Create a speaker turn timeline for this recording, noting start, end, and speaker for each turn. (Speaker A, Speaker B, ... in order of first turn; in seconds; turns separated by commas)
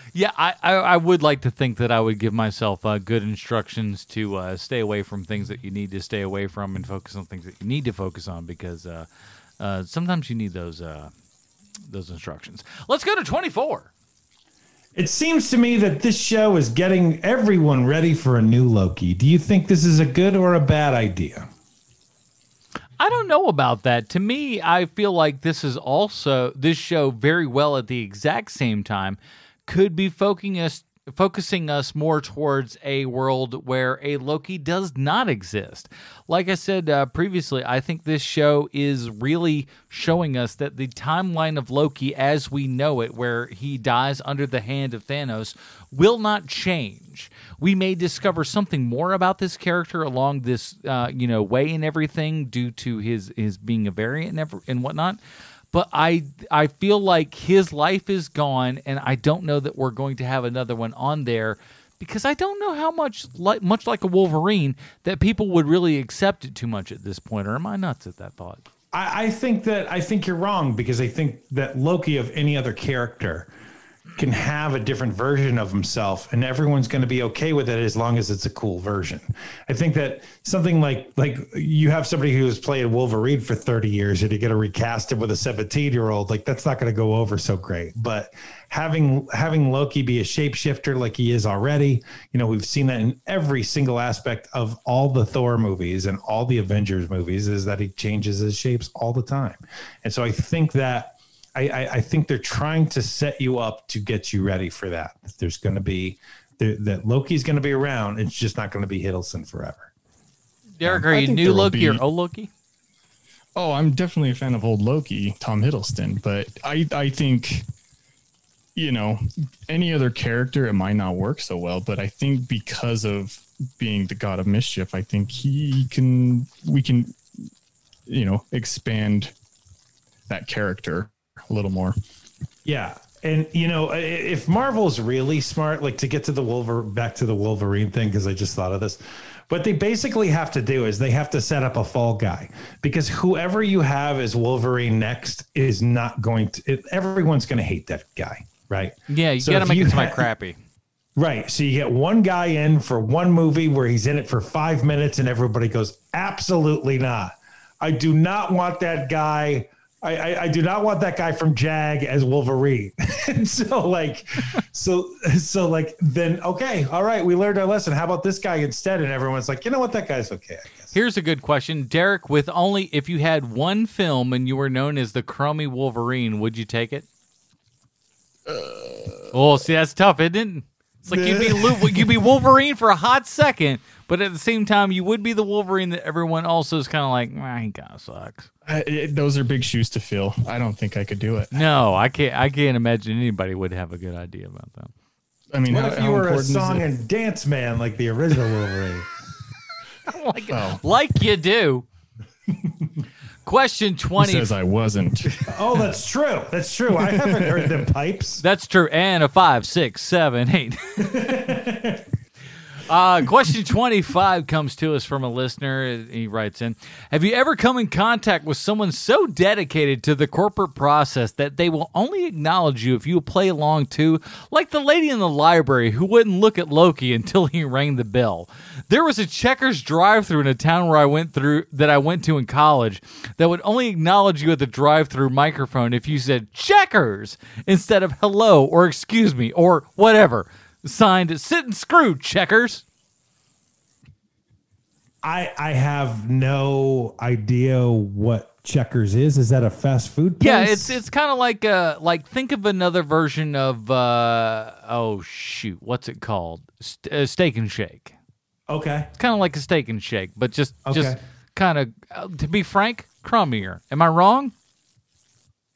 Speaker A: 0.1-9.1, Speaker A: 9.6-11.1, Speaker A: 11.9-13.9, Speaker B: 14.9-21.5, Speaker A: 23.0-55.2, Speaker A: 55.7-68.6, Speaker B: 68.9-73.5, Speaker B: 74.2-109.9, Speaker A: 110.8-112.5, Speaker C: 110.8-112.0, Speaker C: 113.6-117.7, Speaker C: 118.8-127.2, Speaker C: 128.1-129.3, Speaker C: 130.3-132.0, Speaker B: 132.7-150.3, Speaker A: 149.1-150.6, Speaker B: 151.2-170.9, Speaker A: 170.9-177.1, Speaker C: 178.5-179.3, Speaker A: 179.3-188.5, Speaker C: 181.1-182.2, Speaker C: 188.7-191.5, Speaker A: 191.5-194.9, Speaker C: 195.5-196.9, Speaker B: 195.7-199.1, Speaker A: 200.1-201.9, Speaker C: 200.5-200.8, Speaker A: 203.5-204.5, Speaker C: 204.2-205.5, Speaker B: 205.4-208.4, Speaker C: 207.0-207.8, Speaker A: 208.4-211.2, Speaker B: 211.0-212.1, Speaker A: 212.8-242.8, Speaker B: 245.2-251.0, Speaker A: 250.4-258.1, Speaker B: 258.7-259.1, Speaker A: 259.2-264.5, Speaker B: 260.9-261.2